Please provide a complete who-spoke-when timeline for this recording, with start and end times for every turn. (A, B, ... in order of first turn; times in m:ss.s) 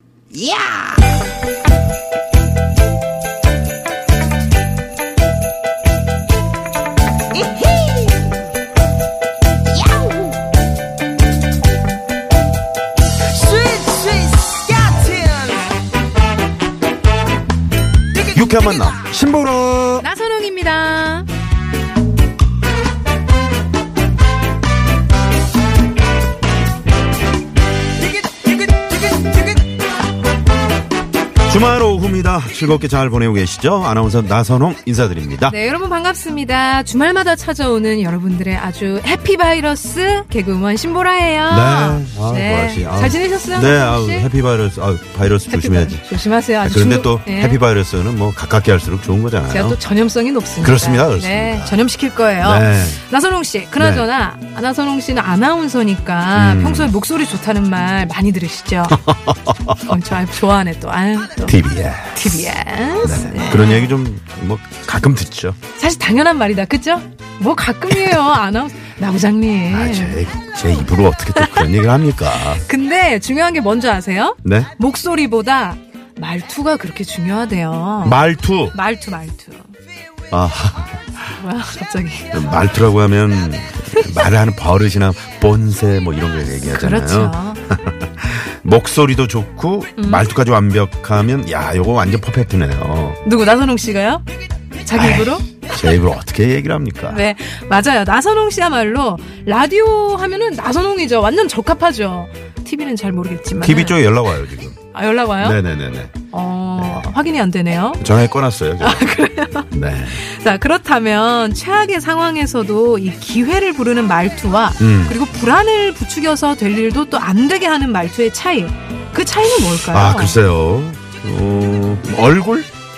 0:00.3-0:01.0 A
0:07.3-0:08.4 A
0:09.7-0:10.4 A
0:13.3-0:15.7 A
0:18.2-0:20.1 B
0:20.0-0:21.3 C
0:28.2-0:29.5 B
0:31.5-0:35.6 B
0:35.5-0:44.3 C
0:41.5-0:46.1 B
0:45.5-0:47.6 C
0:46.6-0:49.8 B
0:49.5-0:59.0 C
0:50.6-0:51.8 B
0:52.4-0:53.0 B
0:53.8-0:54.1 B
0:56.3-0:56.9 B
0:58.9-1:00.0 B
0:59.8-1:01.6 C
1:01.4-1:02.4 B
1:02.1-1:04.0 C
1:03.0-1:05.6 B
1:05.8-1:10.2 C
1:09.7-1:12.6 B
1:11.4-1:11.7 C
1:12.6-1:18.2 C
1:14.4-1:14.7 B
1:18.0-1:18.8 B
1:18.7-1:19.7 C
1:20.3-1:21.3 B
1:21.4-1:22.4 C
1:22.3-1:33.2 B
1:26.6-1:27.6 C
1:30.0-1:30.2 C
1:33.2-1:34.2 C
1:34.9-1:35.4 C
1:34.9-1:37.2 B
1:37.1-1:44.0 C
1:43.6-1:44.8 B
1:44.9-1:45.6 C
1:45.4-1:46.2 B
1:46.3-1:48.1 C
1:46.8-1:47.1 B
1:48.0-1:49.0 B
1:48.8-2:00.4 C
1:49.7-1:50.2 B
1:54.8-1:55.2 B
1:59.9-2:02.7 B